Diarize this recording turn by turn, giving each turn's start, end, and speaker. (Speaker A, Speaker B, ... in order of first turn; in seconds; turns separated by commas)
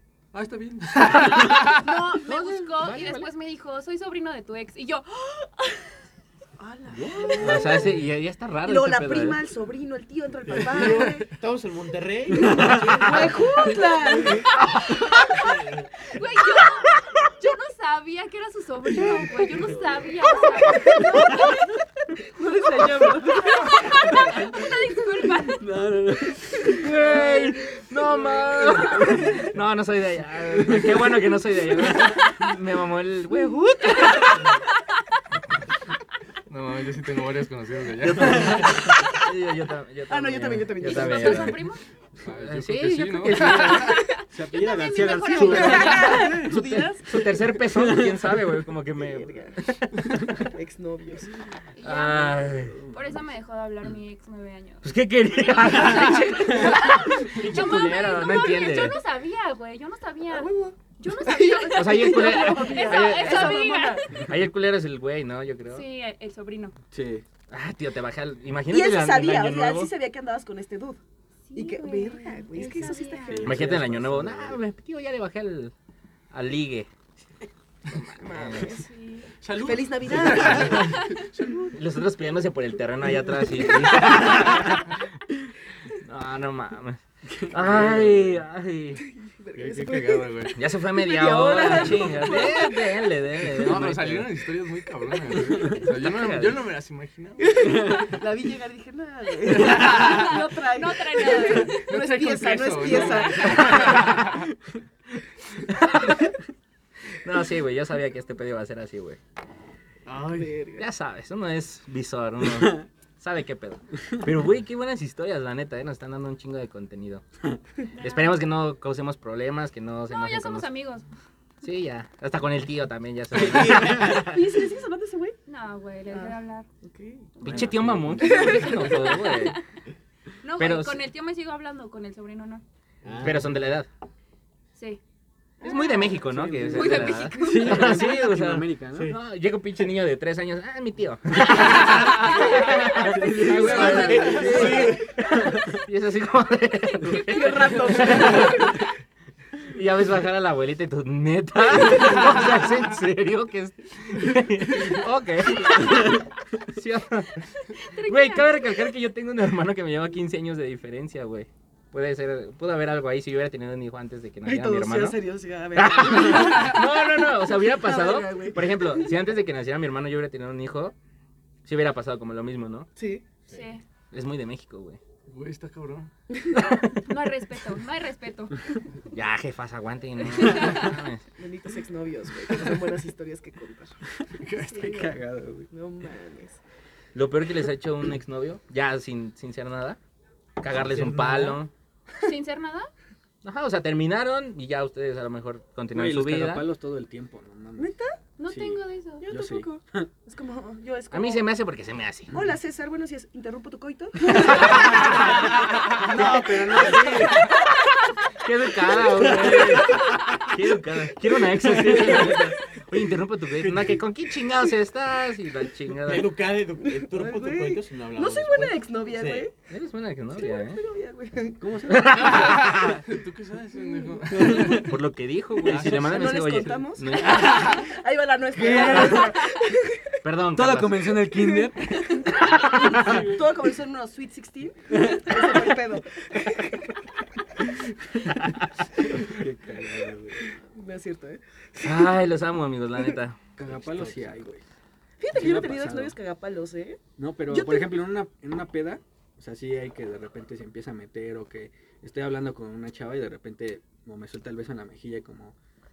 Speaker A: 0.3-1.9, Speaker B: 1.6-6.0, Speaker C: 2.2-3.3, Speaker D: 6.6-8.0, Speaker E: 6.9-7.9, Speaker C: 7.4-9.4, Speaker D: 8.7-11.3, Speaker F: 10.5-13.4, Speaker A: 10.7-11.2, Speaker E: 12.4-13.0, Speaker D: 12.7-14.5, Speaker B: 15.0-15.4, Speaker F: 15.3-15.7, Speaker B: 16.1-21.5, Speaker D: 20.4-21.6, Speaker D: 22.2-24.6, Speaker B: 23.5-25.7, Speaker E: 25.6-26.9, Speaker C: 26.7-34.5, Speaker B: 28.4-29.1, Speaker E: 30.7-30.9, Speaker B: 34.0-34.4, Speaker A: 36.5-38.9, Speaker C: 38.2-41.6, Speaker D: 40.1-41.6, Speaker B: 40.8-41.8, Speaker A: 42.2-44.1, Speaker C: 42.4-44.0, Speaker B: 43.7-46.4, Speaker E: 44.3-46.5, Speaker D: 45.2-47.3, Speaker C: 45.7-50.4, Speaker E: 47.7-48.3, Speaker D: 49.0-49.6, Speaker D: 50.3-51.3, Speaker B: 51.8-54.8, Speaker C: 51.8-52.8, Speaker E: 52.8-53.1, Speaker C: 54.8-59.0, Speaker B: 55.5-64.3, Speaker D: 60.3-64.1, Speaker C: 61.7-65.8, Speaker B: 65.7-66.8, Speaker E: 66.9-67.2, Speaker C: 67.5-69.9, Speaker D: 68.7-71.0, Speaker B: 71.5-73.5, Speaker D: 71.5-73.6, Speaker E: 72.8-74.6, Speaker C: 73.4-75.7, Speaker C: 76.3-76.9, Speaker C: 77.9-78.8, Speaker D: 78.1-78.9, Speaker B: 78.7-79.3, Speaker A: 79.4-81.7, Speaker D: 79.5-81.7, Speaker B: 80.8-81.2, Speaker C: 81.7-85.1, Speaker C: 85.9-89.0, Speaker E: 87.4-88.3, Speaker D: 89.0-93.1, Speaker A: 89.5-90.5, Speaker C: 90.6-94.3, Speaker A: 93.5-98.0, Speaker C: 95.8-96.6, Speaker D: 97.5-104.3, Speaker A: 99.5-100.4, Speaker B: 99.8-101.9, Speaker A: 101.5-104.5, Speaker B: 102.8-103.8, Speaker C: 105.7-106.3, Speaker C: 107.1-109.2, Speaker F: 110.1-110.4, Speaker D: 110.2-110.9, Speaker C: 110.8-117.2, Speaker E: 112.6-112.8, Speaker B: 117.9-118.4, Speaker C: 118.0-120.7, Speaker B: 120.1-121.1, Speaker C: 121.6-124.4, Speaker E: 123.5-123.9, Speaker D: 123.6-125.4, Speaker B: 125.5-126.7, Speaker D: 126.1-127.6, Speaker C: 127.4-129.6, Speaker E: 127.5-128.2, Speaker D: 128.2-129.3, Speaker B: 128.2-129.6, Speaker B: 130.4-132.6, Speaker C: 130.6-131.0, Speaker F: 133.0-133.6, Speaker C: 133.2-133.9, Speaker B: 134.8-135.0, Speaker D: 135.6-138.1, Speaker B: 135.6-136.2, Speaker C: 135.6-148.8, Speaker E: 136.2-139.2, Speaker B: 136.7-137.7, Speaker B: 141.9-144.9, Speaker E: 142.9-145.0, Speaker F: 143.6-145.2, Speaker D: 143.6-145.3, Speaker B: 146.9-148.5, Speaker D: 147.2-148.8, Speaker C: 149.7-165.2, Speaker B: 157.7-158.8, Speaker D: 164.4-169.1, Speaker C: 165.7-170.9, Speaker C: 171.7-172.9, Speaker D: 173.0-173.2, Speaker B: 173.5-173.8, Speaker C: 174.1-175.0, Speaker A: 175.3-176.1, Speaker D: 176.3-176.7, Speaker C: 176.5-177.0, Speaker B: 176.7-178.8, Speaker C: 179.1-181.2, Speaker B: 180.4-180.8, Speaker D: 181.4-184.0, Speaker A: 184.4-184.8, Speaker D: 184.7-185.2, Speaker E: 184.7-185.7, Speaker D: 185.7-186.6, Speaker C: 187.2-190.0, Speaker C: 190.6-191.7, Speaker F: 190.7-191.6, Speaker B: 192.2-192.9, Speaker C: 193.4-196.7, Speaker E: 195.9-197.9, Speaker D: 197.8-198.2, Speaker B: 198.4-199.3, Speaker E: 198.5-200.1, Speaker D: 199.2-201.5, Speaker C: 201.1-202.3, Speaker D: 202.3-207.8, Speaker C: 204.6-205.1, Speaker E: 204.8-205.1, Speaker E: 205.9-207.5, Speaker F: 206.2-207.2, Speaker C: 208.4-216.3, Speaker E: 211.7-212.5, Speaker F: 216.0-219.5, Speaker D: 216.8-219.5, Speaker C: 219.7-220.8, Speaker D: 220.3-221.7, Speaker E: 221.6-222.8, Speaker C: 221.9-223.0, Speaker A: 222.4-224.9, Speaker D: 223.8-224.5, Speaker E: 224.3-225.0, Speaker C: 224.6-227.8, Speaker D: 225.7-230.0, Speaker E: 225.7-226.0, Speaker E: 228.6-229.4, Speaker C: 230.2-231.1, Speaker E: 230.5-232.1, Speaker D: 231.3-237.0, Speaker E: 232.8-233.4, Speaker E: 234.9-235.6, Speaker C: 238.4-238.7, Speaker E: 239.2-240.4, Speaker D: 240.7-242.1, Speaker C: 241.8-243.4, Speaker E: 243.6-244.6, Speaker D: 245.2-247.9, Speaker E: 245.3-246.2, Speaker E: 247.2-255.6